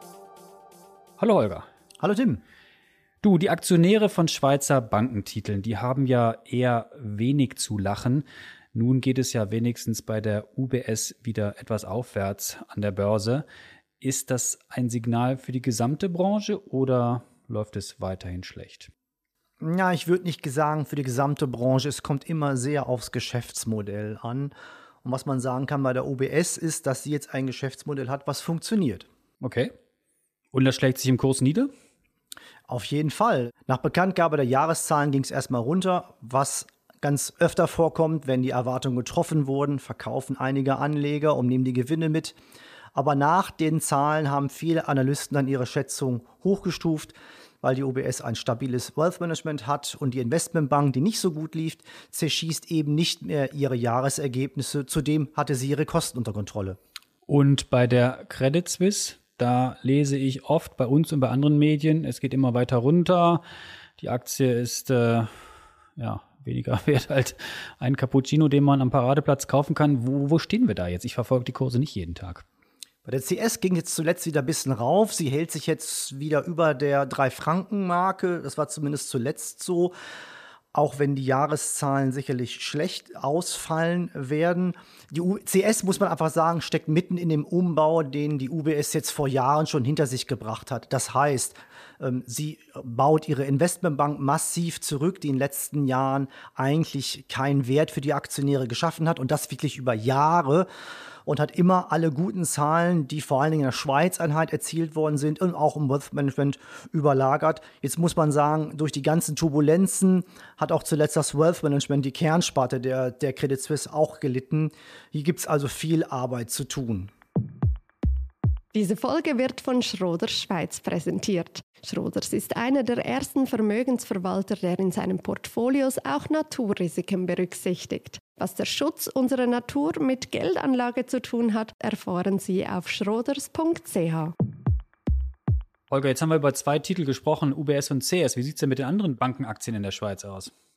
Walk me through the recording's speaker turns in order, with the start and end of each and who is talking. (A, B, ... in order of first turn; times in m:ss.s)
0:01.2-0:01.6 A
0:02.0-0:02.4 B
0:03.2-0:13.4 A
0:14.0-0:18.9 A
0:19.6-0:24.5 B
0:25.0-0:29.0 B
0:29.4-0:29.7 A
0:30.5-0:31.7 A
0:32.7-0:42.4 B
0:42.9-0:56.8 B
0:57.3-1:03.4 A
1:04.0-1:05.3 A
1:06.0-1:12.4 A
1:13.0-1:19.9 B
1:20.7-1:40.7 B
1:41.2-1:57.1 B
1:58.7-2:14.3 C
2:15.9-2:20.5 A